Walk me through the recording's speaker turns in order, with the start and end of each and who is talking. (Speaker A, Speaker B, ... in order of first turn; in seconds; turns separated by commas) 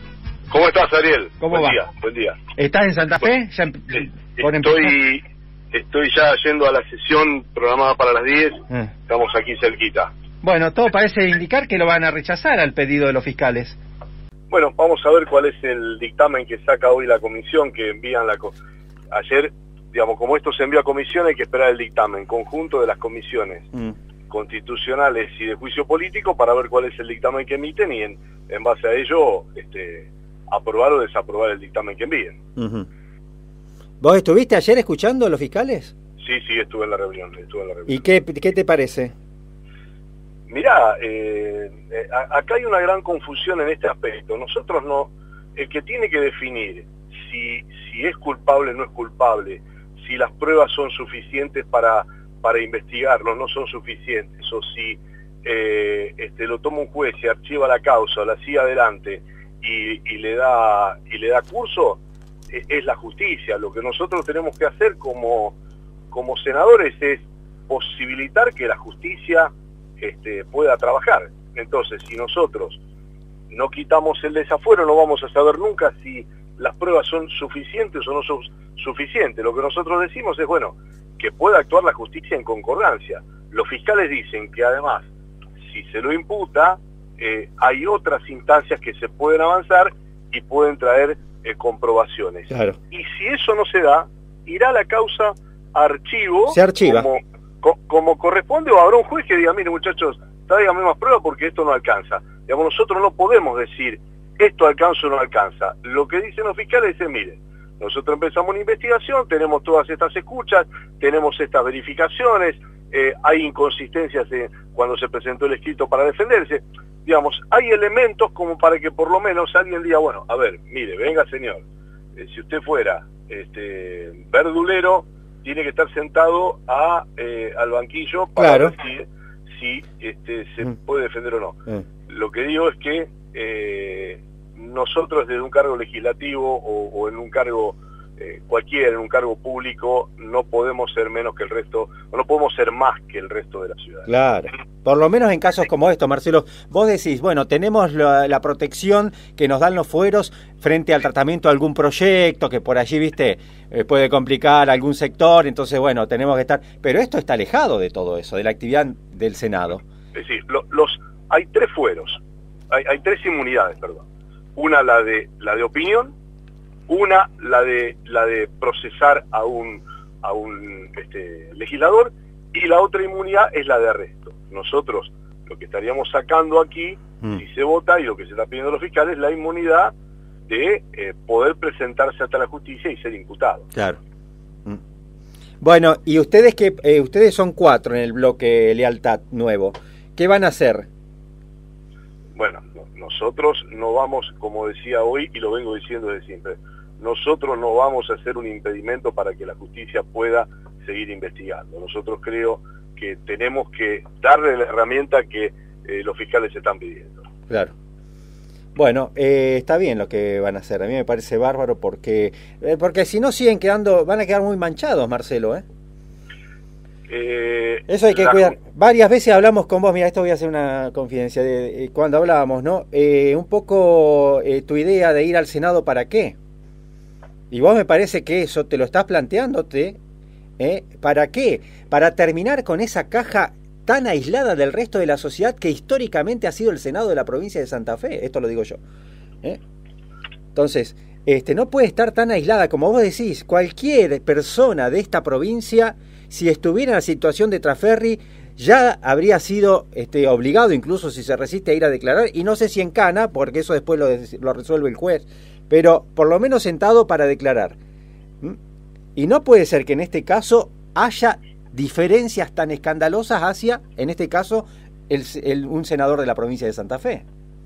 Speaker A: 0.5-2.4, Speaker B: 1.4-1.8, Speaker B: 2.5-4.9, Speaker A: 4.0-5.2, Speaker A: 5.7-10.1, Speaker B: 10.4-13.8, Speaker A: 14.5-18.5, Speaker A: 19.1-23.7, Speaker A: 24.3-32.4, Speaker B: 32.5-32.9, Speaker B: 34.0-35.9, Speaker A: 36.2-38.0, Speaker B: 37.9-39.1, Speaker A: 40.5-62.0, Speaker A: 62.5-65.5, Speaker A: 66.1-72.8, Speaker A: 73.5-85.1, Speaker A: 85.7-121.6, Speaker B: 92.5-92.8, Speaker B: 96.5-97.1, Speaker A: 122.2-144.1, Speaker B: 128.4-128.7, Speaker B: 144.1-159.8, Speaker A: 160.1-162.2, Speaker A: 162.7-164.0, Speaker A: 164.6-166.1, Speaker A: 166.9-179.9, Speaker A: 180.5-183.7, Speaker B: 183.7-184.0, Speaker B: 185.6-190.9, Speaker A: 192.3-207.2, Speaker B: 208.8-215.6, Speaker A: 217.1-218.6, Speaker B: 217.9-226.3, Speaker B: 227.5-230.0, Speaker B: 230.6-238.8, Speaker B: 240.5-257.8, Speaker B: 259.1-267.2